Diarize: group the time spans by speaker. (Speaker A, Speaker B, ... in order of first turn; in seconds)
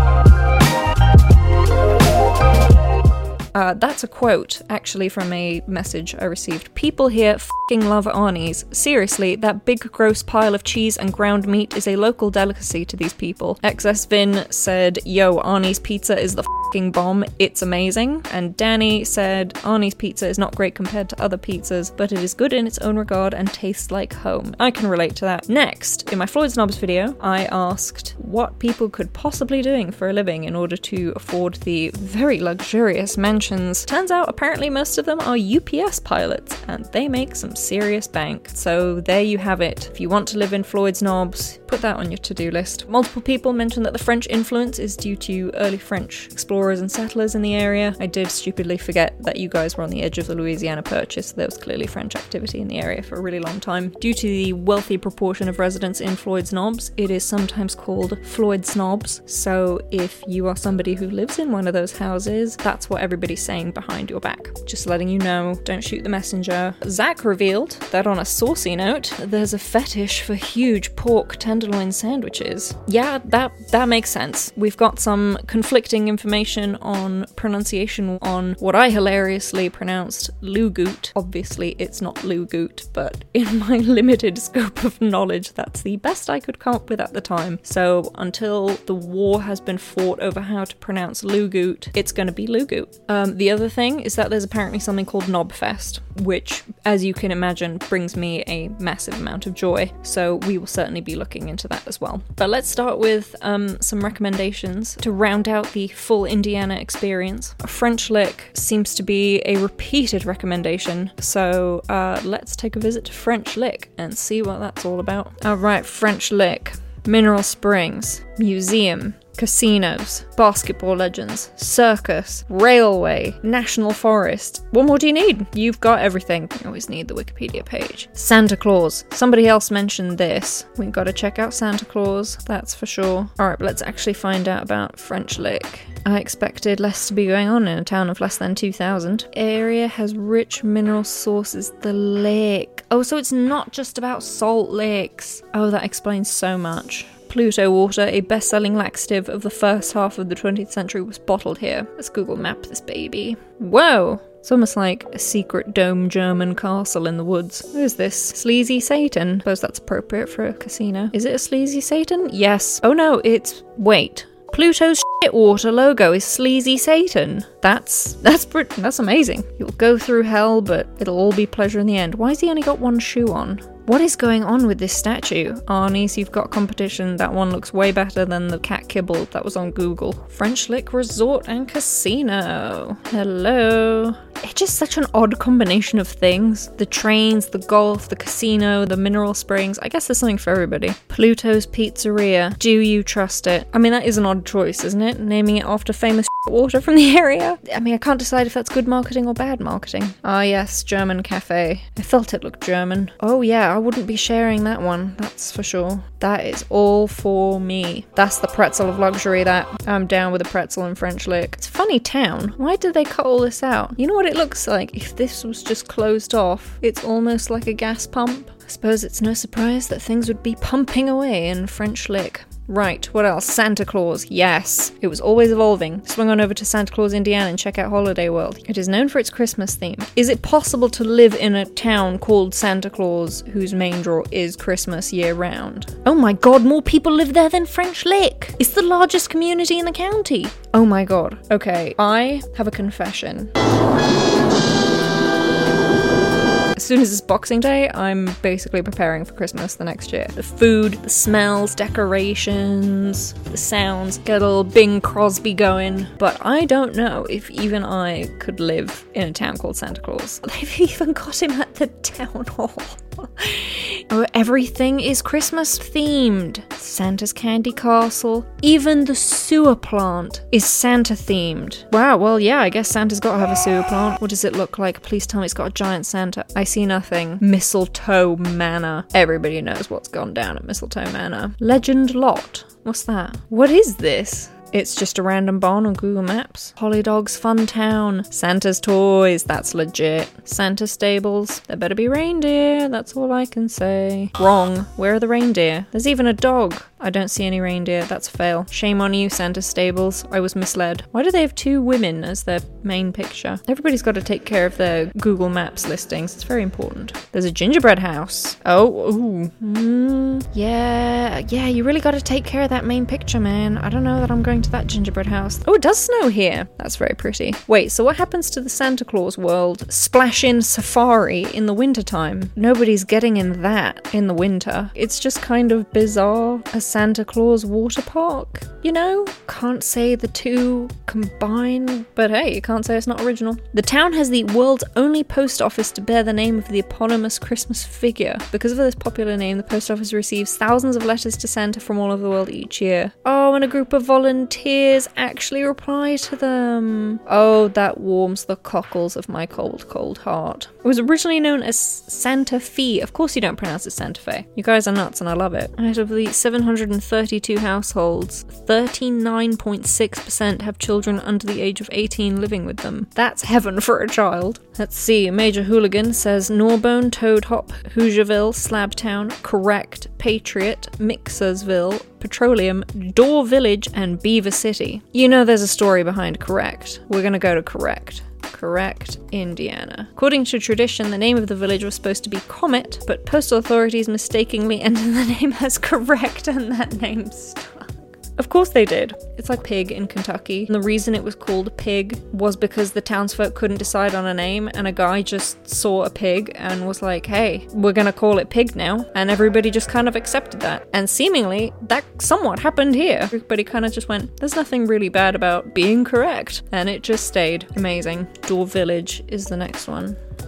Speaker A: 3.5-243.5, 246.8-410.2